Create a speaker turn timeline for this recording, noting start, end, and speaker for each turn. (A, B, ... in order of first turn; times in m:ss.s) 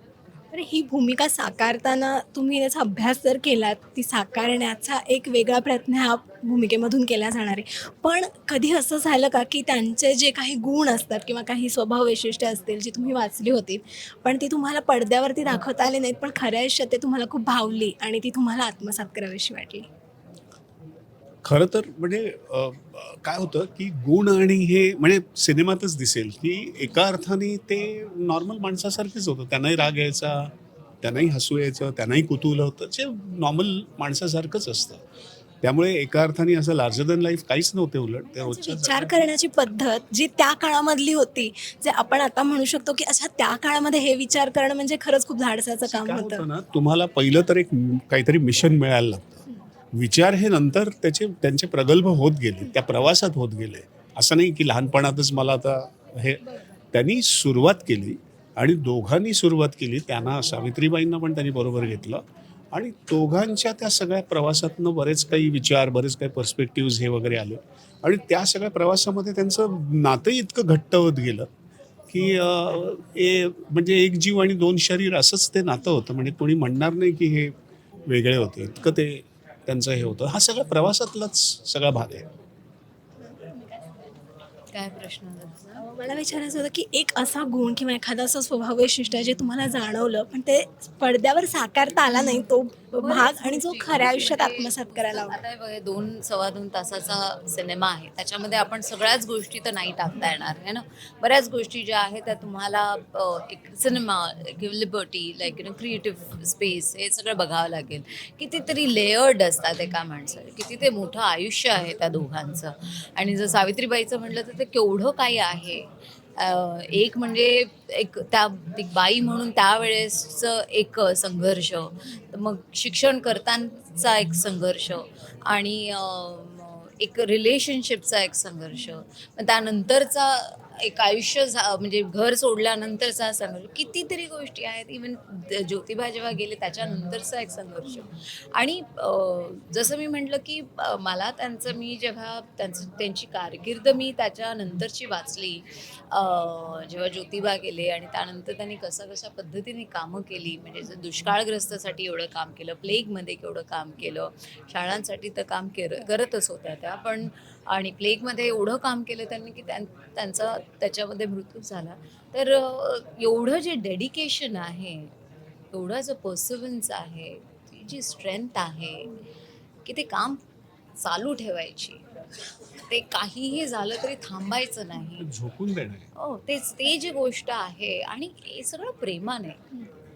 0:00.5-0:19.9 A
0:21.4-0:35.0 B
0:35.6-0:39.2 B
0:38.4-0:46.4 A
0:45.8-0:49.4 B
0:49.9-1:11.5 B
1:12.1-1:17.5 B
1:18.0-1:22.2 B
1:23.5-1:23.9 A
1:24.7-1:25.8 C
1:25.8-1:35.4 A
1:32.9-2:45.1 C
2:45.7-2:49.1 C
2:49.8-2:50.4 C
2:51.0-2:52.0 C
2:52.9-2:55.3 C
2:55.2-2:56.1 B
2:56.1-2:59.6 C